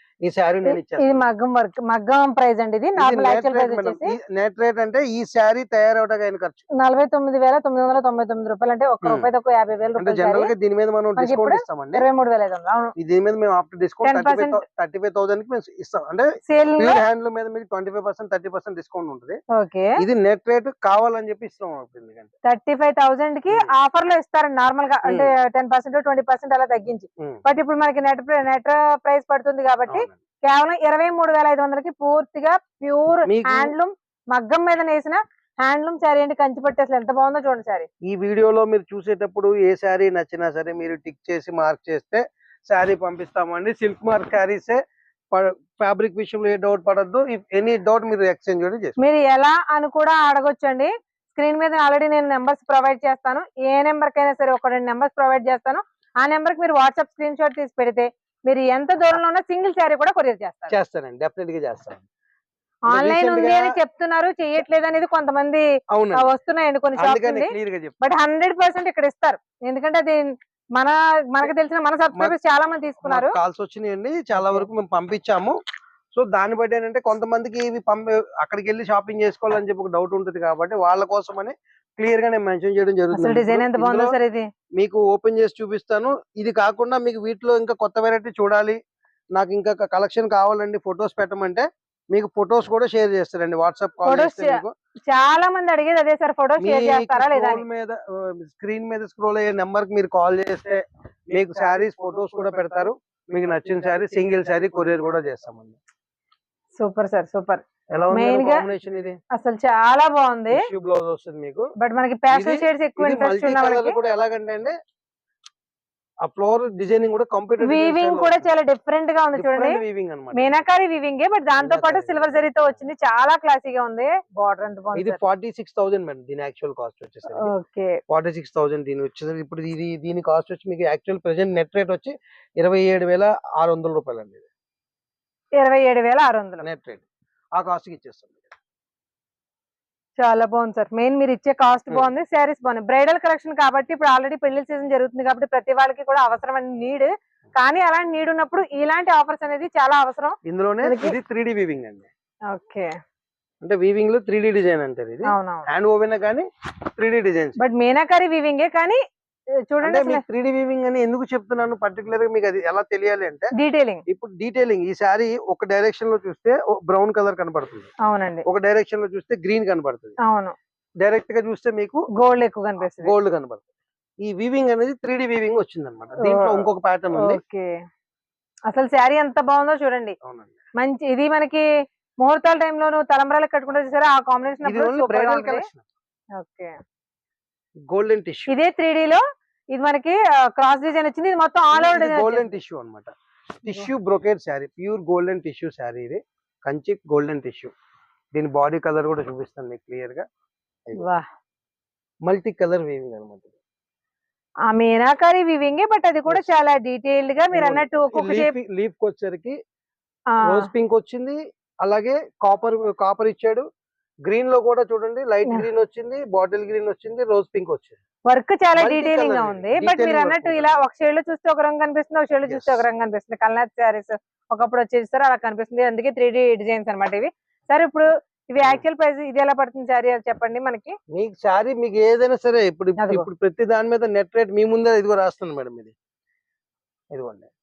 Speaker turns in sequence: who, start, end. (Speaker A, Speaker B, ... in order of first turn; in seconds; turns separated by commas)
Speaker A: 0.2-1.2, Speaker B: 0.7-4.1, Speaker A: 3.0-6.6, Speaker B: 6.8-10.5, Speaker A: 10.0-12.0, Speaker B: 11.2-12.9, Speaker A: 13.0-16.3, Speaker B: 14.0-14.6, Speaker B: 16.5-17.0, Speaker A: 16.8-19.4, Speaker B: 19.5-19.9, Speaker A: 20.0-22.3, Speaker B: 22.4-37.9, Speaker A: 29.9-30.1, Speaker A: 33.2-33.7, Speaker A: 38.1-44.8, Speaker A: 45.3-49.0, Speaker B: 49.0-60.7, Speaker A: 60.7-62.0, Speaker A: 62.9-63.8, Speaker B: 62.9-73.4, Speaker A: 65.9-66.3, Speaker A: 67.0-68.0, Speaker A: 73.0-75.5, Speaker B: 74.4-74.7, Speaker A: 76.1-84.1, Speaker B: 83.1-84.5, Speaker A: 84.8-88.8, Speaker A: 89.3-94.7, Speaker B: 94.0-97.6, Speaker A: 96.6-105.8, Speaker B: 106.8-108.7, Speaker A: 107.9-109.2, Speaker B: 109.3-110.6, Speaker A: 110.5-111.7, Speaker B: 111.8-114.0, Speaker A: 112.3-114.7, Speaker A: 116.2-118.5, Speaker B: 117.6-119.8, Speaker A: 119.3-120.6, Speaker B: 120.3-125.2, Speaker A: 121.6-122.6, Speaker A: 125.0-127.5, Speaker B: 127.4-128.0, Speaker A: 128.1-134.5, Speaker B: 135.6-136.6, Speaker A: 136.6-137.0, Speaker A: 137.6-138.5, Speaker B: 140.2-151.1, Speaker A: 150.4-152.1, Speaker B: 152.5-152.9, Speaker A: 153.6-157.6, Speaker B: 155.3-155.7, Speaker B: 157.6-159.0, Speaker B: 159.7-160.2, Speaker A: 159.8-163.5, Speaker B: 163.6-164.0, Speaker A: 164.1-167.9, Speaker B: 168.0-168.4, Speaker A: 168.4-170.2, Speaker B: 170.2-170.5, Speaker A: 171.0-172.0, Speaker B: 172.1-173.1, Speaker A: 172.8-173.6, Speaker A: 174.2-177.4, Speaker B: 176.2-177.7, Speaker B: 178.7-180.1, Speaker A: 180.2-180.6, Speaker B: 180.8-181.7, Speaker B: 182.2-185.6, Speaker A: 184.6-185.8, Speaker B: 186.3-186.8, Speaker A: 187.9-188.5, Speaker B: 188.5-192.6, Speaker A: 191.7-197.7, Speaker A: 198.3-200.2, Speaker B: 201.0-201.2, Speaker A: 202.2-203.5, Speaker B: 204.7-208.5, Speaker A: 207.5-209.6, Speaker B: 210.3-210.7, Speaker A: 210.4-213.6, Speaker A: 214.2-218.0, Speaker B: 218.2-230.9, Speaker A: 218.8-220.8, Speaker A: 222.5-222.8, Speaker A: 231.1-235.9, Speaker B: 233.0-233.3, Speaker A: 237.1-237.5